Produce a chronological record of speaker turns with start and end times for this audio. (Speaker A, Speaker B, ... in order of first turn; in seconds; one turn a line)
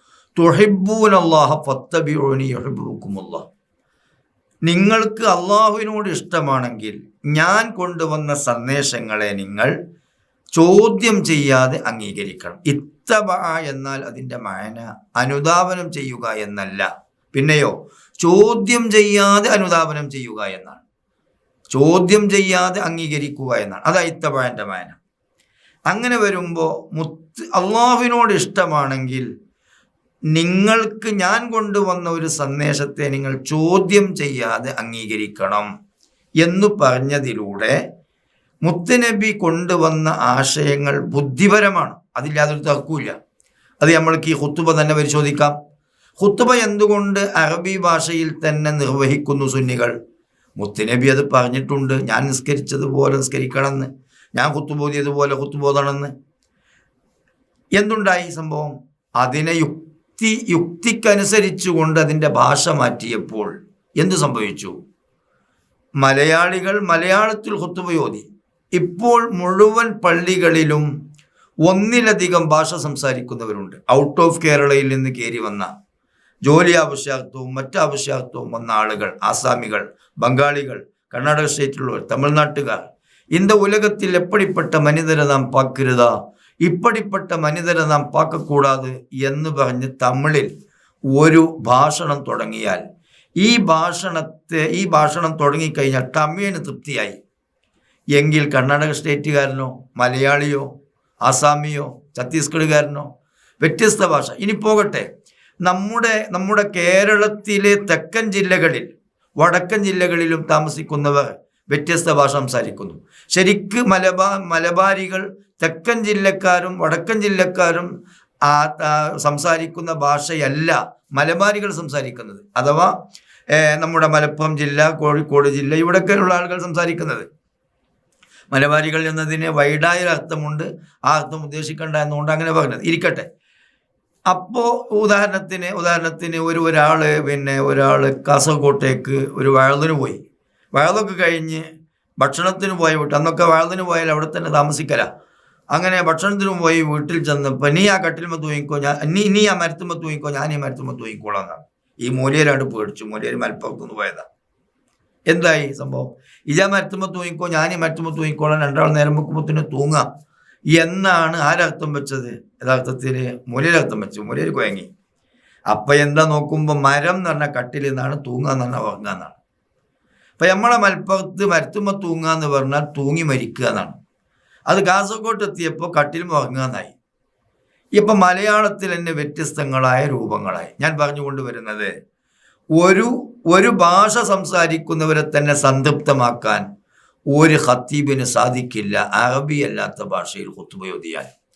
Speaker A: 0.4-3.4
Speaker A: 4.7-9.7
Speaker A: 10.6-20.8
Speaker A: 21.7-25.0
Speaker A: 25.9-29.3
Speaker A: 30.4-35.7
Speaker A: 36.4-37.8
Speaker A: 38.6-43.2
Speaker A: 43.8-45.5
Speaker A: 46.2-49.9
Speaker A: 50.6-56.1
Speaker A: 57.8-64.8
Speaker A: 66.0-70.9
Speaker A: 71.7-75.7
Speaker A: 76.5-86.1
Speaker A: 86.7-90.5
Speaker A: 91.1-92.8
Speaker A: 93.4-97.2
Speaker A: 98.2-100.7
Speaker A: 101.3-103.1
Speaker A: 103.6-105.1
Speaker A: 105.7-108.9
Speaker A: 109.4-117.9
Speaker A: 118.5-122.9
Speaker A: 123.5-127.3
Speaker A: 128.5-133.3
Speaker A: 134.3-140.2
Speaker A: 140.8-141.7
Speaker A: 142.2-145.1
Speaker A: 145.7-154.3
Speaker A: 155.3-160.1
Speaker A: 160.8-164.9
Speaker A: 165.7-169.4
Speaker A: 170.4-173.9
Speaker A: 174.7-176.9
Speaker A: 178.0-181.9
Speaker A: 182.8-186.6
Speaker A: 187.3-191.3